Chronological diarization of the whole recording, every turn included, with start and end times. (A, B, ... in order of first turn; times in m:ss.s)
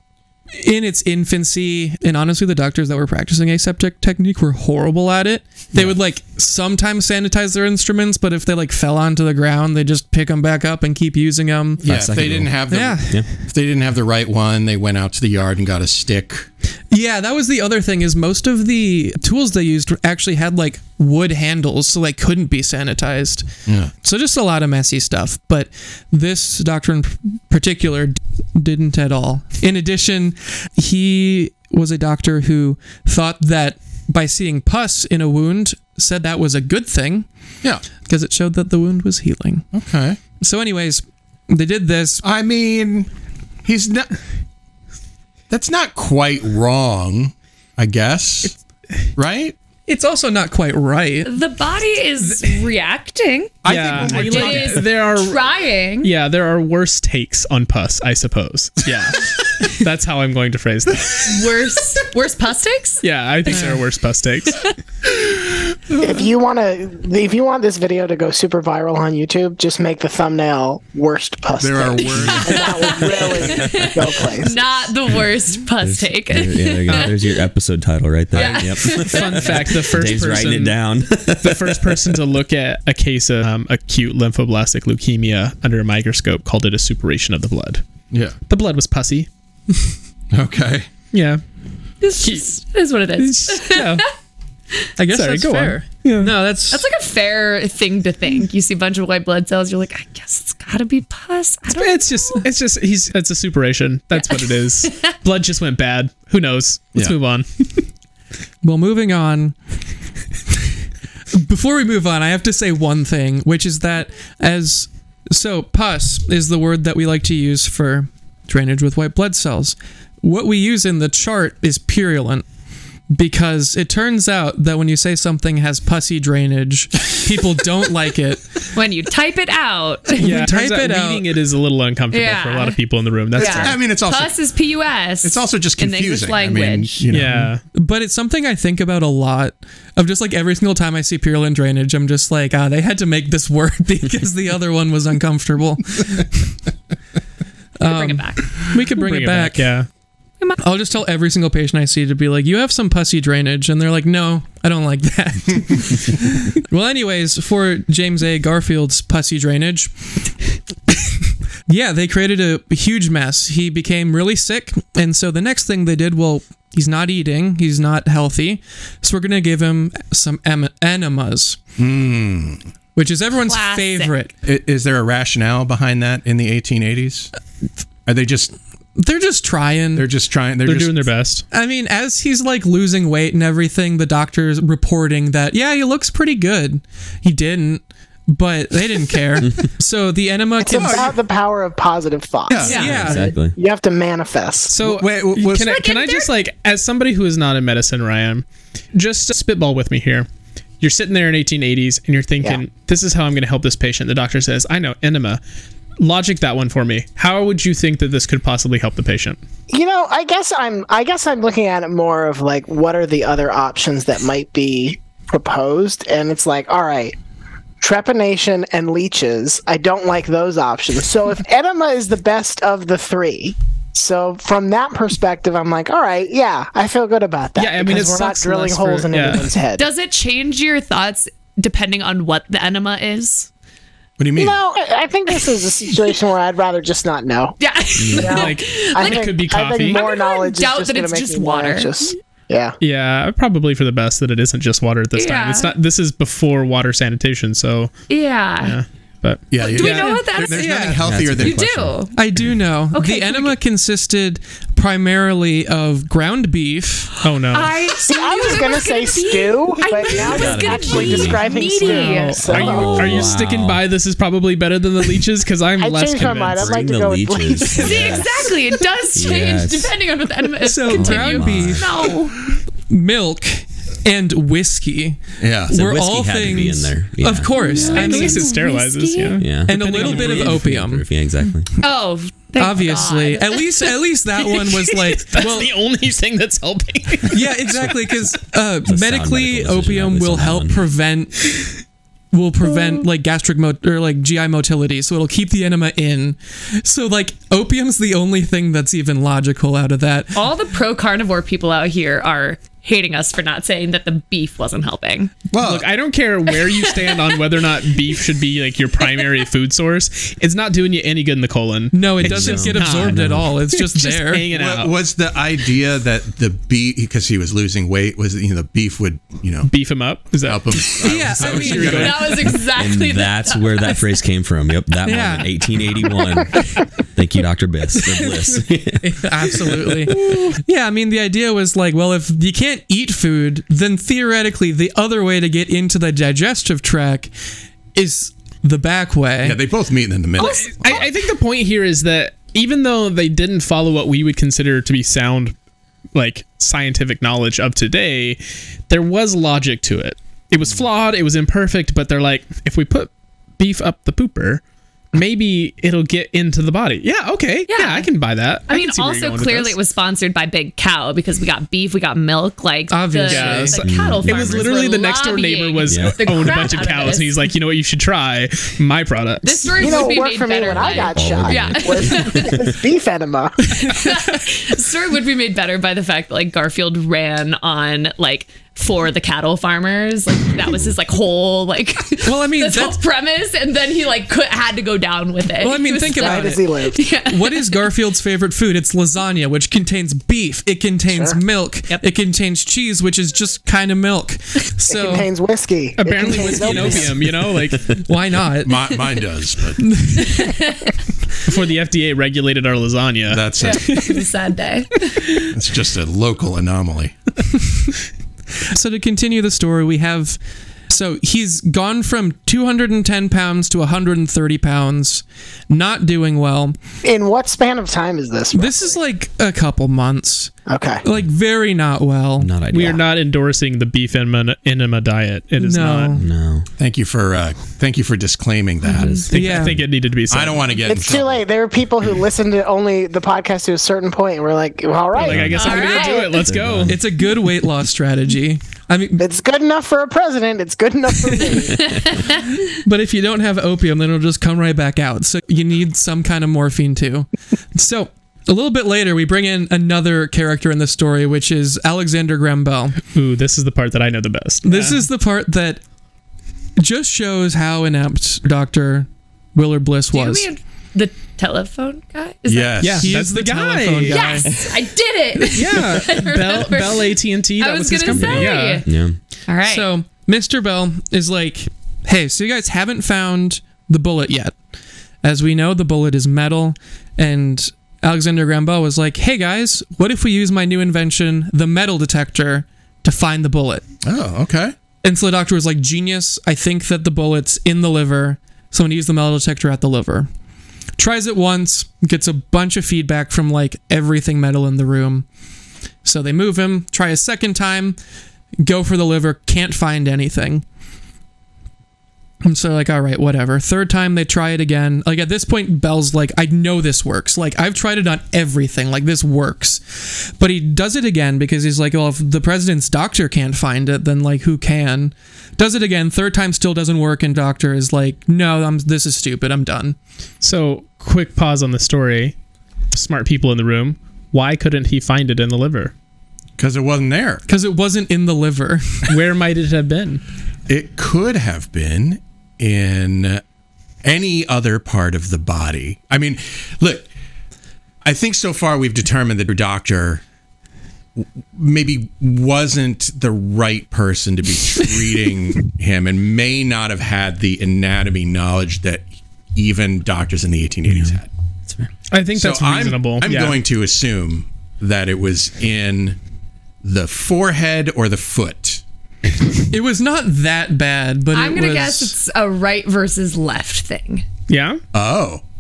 0:00.5-0:11.9 A
0:11.8-0:16.5 B
0:11.8-0:13.3 C
0:12.7-0:13.2 A
0:16.9-0:23.5 A
0:23.7-0:23.9 B
0:24.0-0:37.3 A
0:38.1-0:39.7 A
0:39.7-0:40.2 B
0:40.4-0:42.2 A
0:42.2-0:43.1 B
0:43.6-0:44.2 B
0:45.5-0:48.6 B
0:49.2-0:49.6 B
0:49.9-0:51.3 A
0:51.3-0:56.1 D
0:53.6-0:54.9 B
0:53.7-0:55.4 E
0:56.0-1:01.3 E
1:01.1-1:03.0 D
1:03.0-1:04.7 E
1:06.0-1:14.6 F
1:11.6-1:13.0 B
1:12.2-1:17.4 D
1:13.6-1:13.9 C
1:15.8-1:22.2 C
1:18.3-1:19.8 D
1:18.3-1:18.8 B
1:19.0-1:27.8 E
1:28.1-1:28.4 B
1:28.5-1:29.3 E
1:30.3-1:30.9 B
1:31.1-1:31.4 E
1:32.0-1:34.0 D
1:32.2-1:32.5 E
1:33.2-1:34.1 E
1:35.0-1:36.8 A
1:35.1-1:36.4 E
1:36.7-1:42.5 D
1:41.7-1:47.8 E
1:44.1-1:45.1 D
1:48.6-1:49.6 A
1:51.3-2:02.5 A
2:03.1-2:08.6 A
2:08.7-2:10.3 D
2:10.2-2:13.8 E
2:10.2-2:11.3 A
2:12.1-2:12.8 D
2:13.4-2:14.4 B
2:13.4-2:17.0 D
2:15.2-2:17.5 B
2:17.1-2:17.6 E
2:17.7-2:26.3 A
2:27.8-2:29.7 A
2:27.8-2:28.5 D
2:28.8-2:29.9 E
2:30.6-2:40.1 A
2:41.7-2:51.6 A
2:51.8-2:52.6 B
2:53.0-2:54.3 A
2:53.5-2:54.1 D
2:54.4-2:57.3 B
2:58.1-2:58.6 B
2:59.0-3:00.1 A
3:00.0-3:01.1 B
3:00.6-3:01.4 E
3:01.5-3:11.1 A
3:10.6-3:14.7 F
3:10.7-3:11.1 B
3:12.5-3:12.9 B
3:12.6-3:12.9 D
3:12.6-3:13.3 A
3:12.8-3:13.6 C
3:14.7-3:20.3 E
3:14.8-3:15.8 B
3:15.6-3:16.3 D
3:20.8-3:25.4 E
3:26.0-3:29.4 E
3:29.7-3:37.2 F
3:37.8-3:49.9 F
3:47.6-3:49.5 E
3:49.8-3:53.5 D
3:54.2-3:54.6 B
3:54.4-3:57.6 F
3:57.6-4:02.0 D
3:58.0-3:58.4 C
3:58.1-4:02.8 F
3:58.3-4:00.0 E
4:02.8-4:07.9 E
4:05.2-4:05.8 D
4:08.1-4:08.8 D
4:08.6-4:10.2 E
4:09.5-4:11.7 B
4:09.6-4:12.2 D
4:09.8-4:11.1 A
4:10.9-4:12.4 C
4:12.1-4:17.2 A
4:12.9-4:13.6 D
4:17.2-4:17.8 E
4:17.5-4:22.8 D
4:18.0-4:23.3 F
4:20.1-4:21.5 C
4:21.8-4:26.8 E
4:22.4-4:23.9 C
4:25.8-4:28.3 F
4:26.2-4:28.5 C
4:27.7-4:32.4 D
4:29.2-4:30.0 C
4:30.6-4:32.1 A
4:30.9-4:32.2 C
4:32.9-4:38.5 A
4:35.4-4:35.8 B
4:35.7-4:38.4 C
4:37.6-4:39.4 D
4:37.8-4:40.7 E
4:39.4-4:41.7 C
4:39.7-4:41.0 A
4:41.8-4:44.0 D
4:42.6-4:45.7 A
4:44.6-4:47.4 E
4:47.3-4:51.7 A
4:48.9-4:50.9 C
4:52.3-5:00.4 A
5:00.4-5:05.4 D
5:05.5-5:05.9 B
5:05.6-5:15.0 E
5:06.5-5:08.2 D
5:11.9-5:14.5 A
5:12.2-5:13.6 C
5:14.5-5:19.7 B
5:19.6-5:22.5 E
5:20.4-5:22.6 B
5:21.0-5:22.1 A
5:21.8-5:24.2 D
5:22.6-5:30.4 C
5:25.0-5:25.6 A
5:28.0-5:37.3 A
5:37.9-5:39.6 A
5:39.4-5:40.9 B
5:40.4-5:41.0 D
5:40.4-5:45.6 E
5:46.1-5:54.6 E
5:55.1-5:59.8 E
5:57.7-5:58.1 D
5:58.7-6:07.5 D
6:02.9-6:03.8 A
6:03.3-6:10.3 E
6:03.8-6:04.8 C
6:05.9-6:06.7 C
6:09.4-6:12.7 D
6:09.8-6:13.8 F
6:10.7-6:12.7 C
6:13.8-6:27.9 D
6:22.2-6:23.0 A
6:25.6-6:35.3 A
6:26.1-6:27.0 F
6:31.1-6:31.4 F
6:34.9-6:37.2 F
6:36.0-6:37.9 E
6:36.7-6:37.9 C
6:37.9-6:39.0 A
6:38.6-6:40.0 B
6:39.8-6:40.7 A
6:40.4-6:40.9 D
6:41.5-6:44.0 E
6:43.3-6:44.0 B
6:43.6-6:45.4 D
6:45.5-6:47.2 B
6:48.7-6:50.4 A
6:50.9-6:56.8 A
6:57.0-6:59.0 F
6:58.5-7:02.5 A
7:00.7-7:01.0 F
7:02.4-7:03.0 C
7:02.7-7:06.2 E
7:05.6-7:06.2 A
7:06.2-7:06.7 C
7:06.8-7:09.3 B
7:08.9-7:09.7 C
7:09.3-7:10.7 E
7:09.3-7:09.8 A
7:10.3-7:11.4 B
7:10.9-7:16.4 F
7:15.2-7:17.0 E
7:15.2-7:15.8 C
7:15.5-7:16.5 D
7:16.5-7:17.0 C
7:16.9-7:19.2 A
7:19.2-7:21.8 F
7:22.7-7:33.0 A
7:33.1-7:35.0 E
7:34.6-7:35.8 A
7:36.8-7:40.5 A
7:40.1-7:43.0 D
7:42.5-7:43.1 B
7:42.8-7:44.4 E
7:43.0-7:44.5 A
7:44.1-7:48.9 D
7:45.5-7:48.9 E
7:48.1-7:49.2 C
7:49.5-7:49.9 D
7:49.6-7:54.6 A
7:55.2-8:03.8 A
8:04.0-8:04.8 B
8:05.0-8:10.3 A
8:11.0-8:15.3 A
8:16.0-8:18.0 A
8:18.6-8:20.6 A
8:22.4-8:40.0 A
8:40.4-8:42.4 E
8:42.9-8:45.9 E
8:46.6-8:47.4 B
8:47.5-8:49.1 A
8:49.1-8:50.2 E
8:50.7-8:53.4 B
8:54.0-8:57.1 B
8:58.0-9:00.2 B
9:01.2-9:11.3 B
9:12.1-9:13.6 E
9:12.3-9:16.2 B
9:16.8-9:18.8 B
9:19.7-9:22.2 A
9:21.3-9:24.2 D
9:24.5-9:24.8 E
9:24.9-9:25.4 B